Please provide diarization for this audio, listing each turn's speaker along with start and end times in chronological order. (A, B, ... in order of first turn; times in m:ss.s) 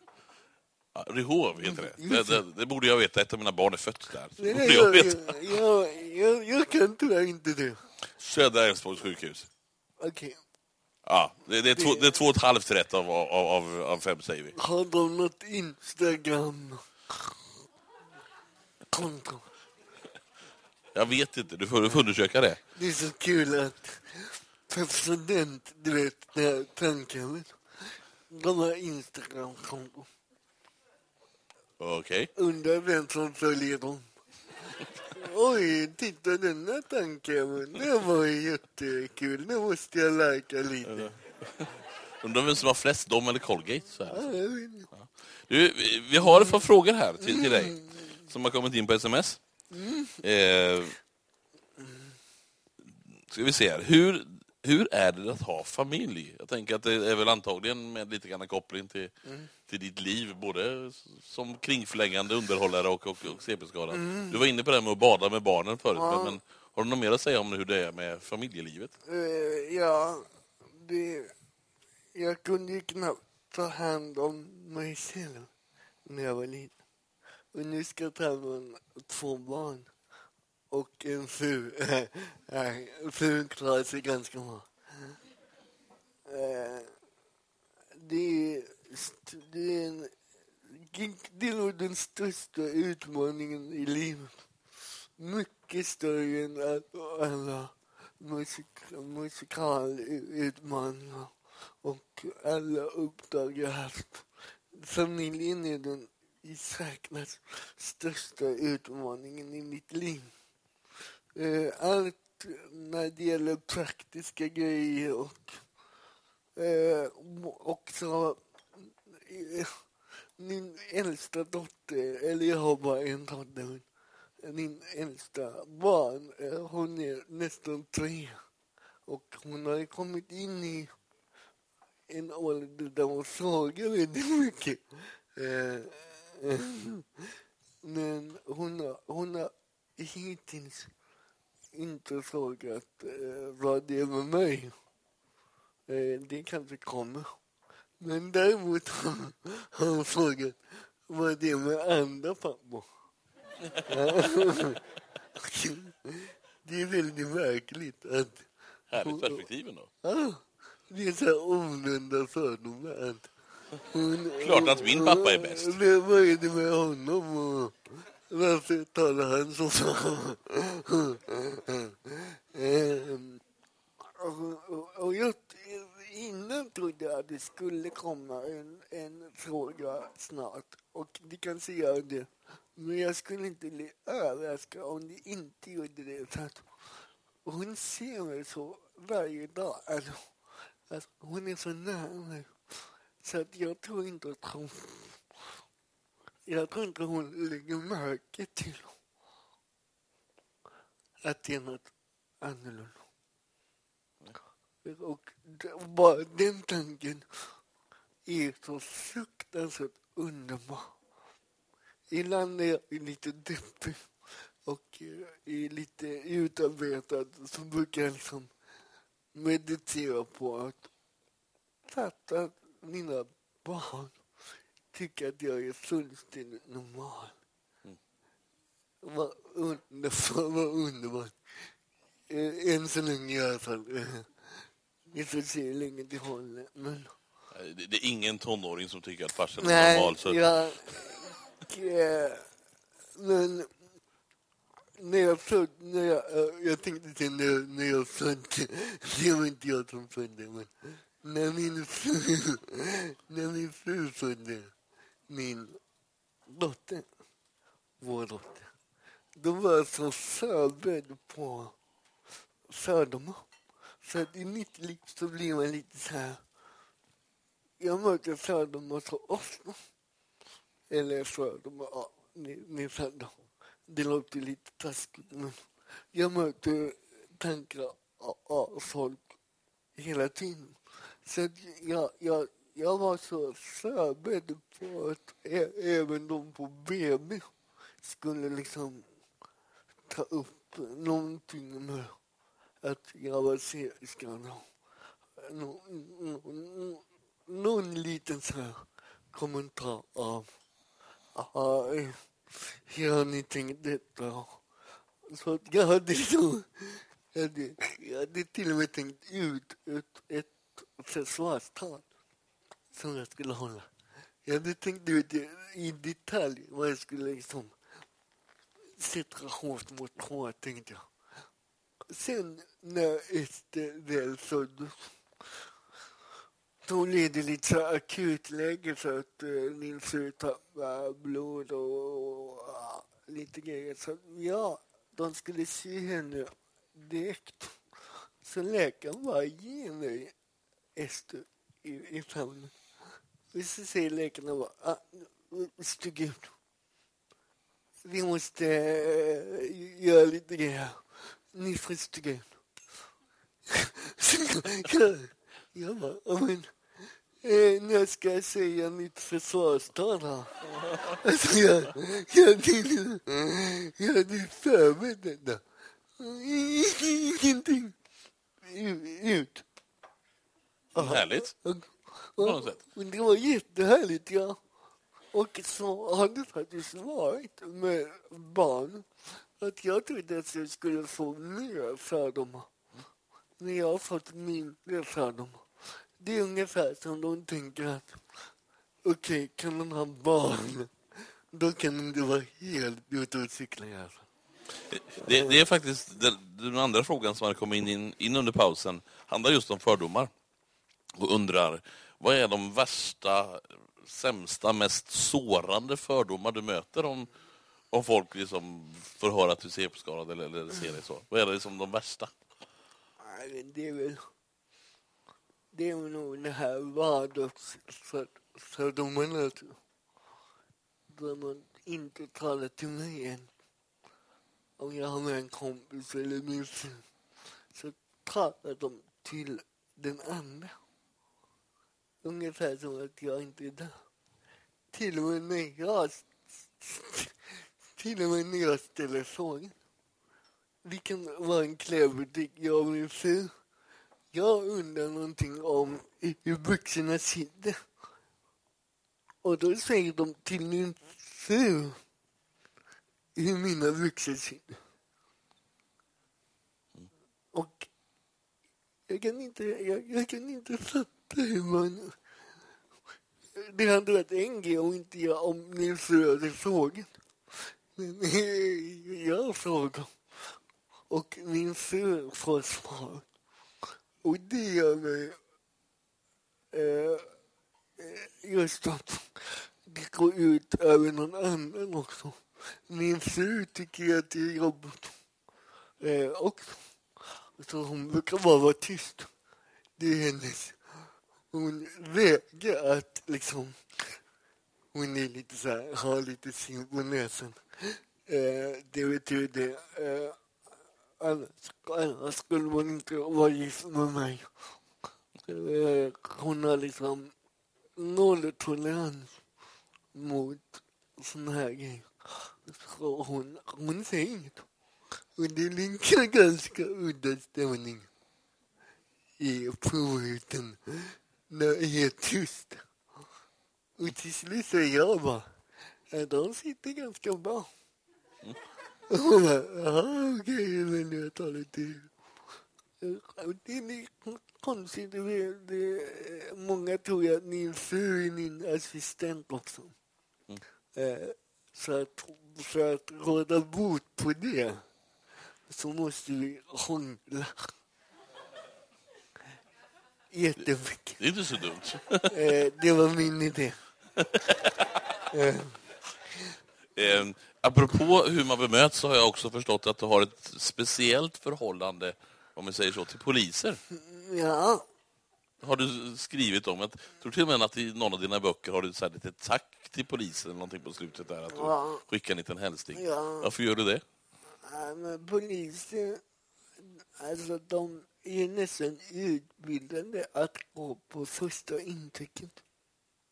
0:00.9-0:05.4 A
0:01.6-0:02.4 B
0:04.4-0:07.8 B
0:08.2-0:09.5 A
0:10.0-0:10.4 B
0:11.0-0:14.6 A
0:11.7-0:12.1 B
0:14.6-0:17.3 B
0:18.9-0:19.4 B
0:20.9-0:22.6 A
0:22.7-0:30.1 B
0:31.8-0:32.3 A
0:32.4-0:34.1 B
0:35.1-0:41.1 B
0:40.9-0:44.4 A
0:44.1-0:44.9 B
0:44.9-0:49.4 A
0:46.2-0:46.6 B
0:47.2-0:47.8 B
0:49.7-0:50.2 B
0:50.2-0:51.0 A
0:53.2-0:59.1 A
0:59.2-0:59.5 B
0:59.7-1:08.9 A
1:03.9-1:04.4 B
1:05.9-1:06.4 B
1:09.0-1:11.3 B
1:12.1-1:15.5 B
1:16.0-1:16.7 B
1:17.5-1:19.9 B
1:20.7-1:25.2 B
1:26.2-1:26.9 B
1:27.9-1:30.1 B
1:30.6-1:34.5 B
1:35.2-1:50.3 B
1:51.3-1:55.6 B
1:56.6-1:59.8 B
2:00.4-2:03.8 B
2:04.4-2:08.4 B
2:09.0-2:10.9 B
2:12.1-2:20.9 B
2:21.7-2:24.7 B
2:25.9-2:27.3 B
2:28.0-2:32.9 B
2:33.9-2:34.8 B
2:35.3-2:38.5 B
2:38.9-2:39.9 A
2:39.0-2:39.4 B
2:40.0-2:43.3 B
2:43.9-2:53.4 B
2:44.4-2:45.8 A
2:54.0-3:06.6 B
3:07.4-3:10.3 B
3:10.9-3:15.2 B
3:16.4-3:18.9 B
3:21.2-3:23.0 B
3:24.8-3:27.2 B
3:28.2-3:30.9 B
3:32.1-3:34.1 B
3:34.6-3:38.5 B
3:39.3-3:40.9 B
3:41.9-3:44.2 B
3:44.9-3:47.4 B
3:49.0-3:51.7 B
3:52.3-3:57.1 B
3:57.5-4:00.4 A
3:59.6-4:02.5 B
4:03.1-4:03.7 B
4:05.0-4:14.7 B
4:15.3-4:15.8 B
4:16.4-4:17.1 B
4:18.0-4:18.7 B
4:19.4-4:21.7 B
4:22.7-4:23.4 B
4:24.0-4:26.4 B
4:27.8-4:29.8 B
4:30.9-4:33.4 B
4:33.9-4:39.3 B
4:40.0-4:47.5 B
4:48.0-4:49.1 B
4:50.0-4:52.2 B
4:52.8-4:54.7 B
4:55.4-5:00.5 B
5:01.3-5:04.6 B
5:05.2-5:12.0 B
5:12.9-5:13.9 B
5:14.4-5:17.8 B
5:19.0-5:21.1 B
5:22.1-5:25.1 B
5:26.8-5:37.8 B
5:38.4-5:40.3 B
5:41.0-5:42.7 B
5:43.5-5:46.5 B
5:48.0-5:52.5 B
5:53.7-5:56.8 B
5:57.4-6:00.6 B
6:01.1-6:05.6 B
6:06.2-6:08.0 B
6:08.6-6:09.6 B
6:10.9-6:11.5 A
6:10.9-6:14.6 B
6:12.4-6:12.8 A
6:15.3-6:22.7 B
6:23.6-6:25.7 B
6:26.2-6:28.4 B
6:29.0-6:34.3 B
6:34.9-6:40.3 A
6:35.3-6:35.6 B
6:41.1-6:47.3 A
6:47.9-6:52.3 A
6:53.2-6:54.2 B
6:55.7-6:59.8 B
7:01.1-7:03.5 B
7:04.8-7:07.0 B
7:07.7-7:10.8 B
7:12.2-7:14.0 B
7:14.9-7:19.7 B
7:20.8-7:23.5 B
7:24.3-7:27.8 B
7:29.4-7:32.0 B
7:33.3-7:34.8 B
7:37.5-7:37.9 B
7:39.1-7:42.2 B
7:43.5-7:50.1 B
7:51.1-7:53.3 B
7:54.2-7:55.4 B
7:56.7-7:57.2 B
7:58.0-8:05.2 B
8:06.0-8:06.8 B
8:07.6-8:09.3 B
8:10.0-8:10.8 B
8:11.5-8:14.2 B
8:14.9-8:20.4 B
8:21.2-8:24.5 B
8:25.4-8:27.3 B
8:28.0-8:29.4 B
8:30.1-8:34.7 B
8:35.4-8:38.1 B
8:39.4-8:42.9 B
8:44.0-8:45.5 B
8:46.1-8:47.7 B
8:49.1-8:52.1 B
8:53.0-8:59.9 B
9:00.9-9:04.8 B
9:05.7-9:07.7 B
9:10.3-9:11.2 B
9:11.2-9:12.3 A
9:12.3-9:13.8 B
9:14.2-9:14.8 A
9:15.3-9:15.8 B
9:17.0-9:23.8 A
9:23.9-9:24.8 B
9:25.6-9:34.0 A
9:31.5-9:32.0 B
9:32.9-9:33.5 B
9:34.6-9:36.2 B
9:36.8-9:42.6 B